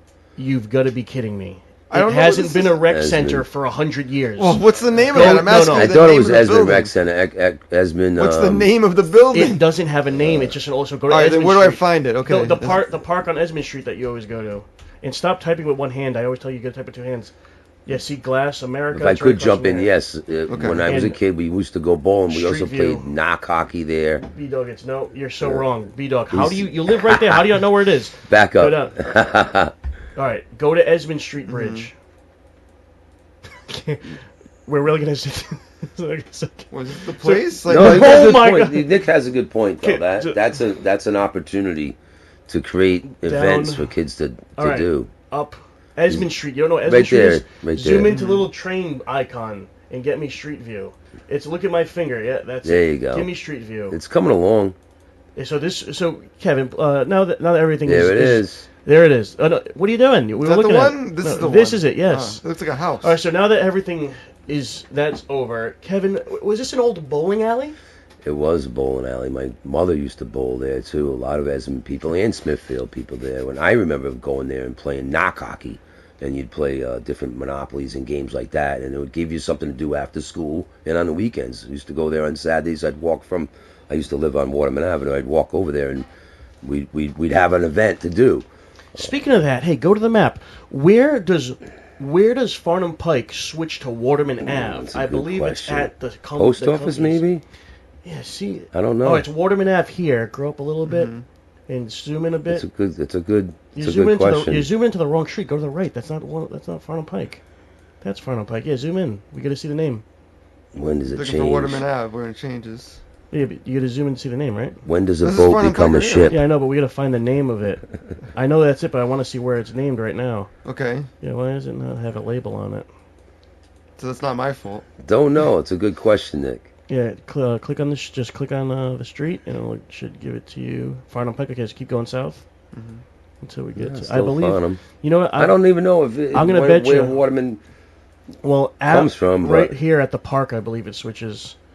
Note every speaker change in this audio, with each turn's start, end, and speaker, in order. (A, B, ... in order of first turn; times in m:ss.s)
0:00.4-0:05.9 A
0:01.9-0:02.8 B
0:02.8-0:03.5 C
0:04.4-0:06.9 B
0:05.1-0:08.7 C
0:08.2-0:09.7 B
0:09.3-0:17.3 A
0:10.1-0:10.6 C
0:11.1-0:12.9 B
0:17.9-0:19.9 A
0:18.9-0:24.2 C
0:20.5-0:20.9 B
0:20.8-0:21.2 A
0:22.3-0:23.1 A
0:24.2-0:29.0 A
0:25.4-0:25.7 C
0:26.3-0:27.6 C
0:28.3-0:29.7 C
0:30.2-0:31.9 A
0:31.5-0:31.9 B
0:33.6-0:38.9 A
0:36.7-0:38.3 B
0:37.7-0:42.0 C
0:39.8-0:40.4 A
0:42.5-0:45.1 C
0:43.0-0:43.9 A
0:44.6-0:54.0 A
0:46.8-0:48.2 C
0:48.1-0:48.5 B
0:52.6-0:53.3 C
0:53.9-0:54.8 C
0:55.4-1:02.4 A
0:57.8-0:58.7 C
1:00.4-1:03.2 B
1:03.0-1:07.8 A
1:08.2-1:26.1 C
1:26.6-1:29.1 C
1:29.0-1:37.2 A
1:34.4-1:37.4 C
1:38.0-1:41.1 A
1:38.7-1:39.3 C
1:40.8-1:41.2 B
1:41.7-1:42.7 A
1:42.5-1:44.7 C
1:43.7-1:47.4 A
1:48.0-1:50.0 A
1:50.7-1:51.8 C
1:51.1-1:53.0 B
1:53.3-1:54.8 A
1:54.9-1:56.4 C
1:55.2-1:56.3 B
1:56.3-2:00.5 A
2:00.6-2:01.1 B
2:01.2-2:02.9 A
2:04.0-2:04.9 B
2:05.0-2:06.7 C
2:06.9-2:12.4 A
2:12.7-2:13.0 B
2:13.4-2:15.6 A
2:13.8-2:14.8 C
2:15.4-2:17.6 C
2:16.3-2:17.2 A
2:18.4-2:21.6 A
2:18.9-2:19.8 C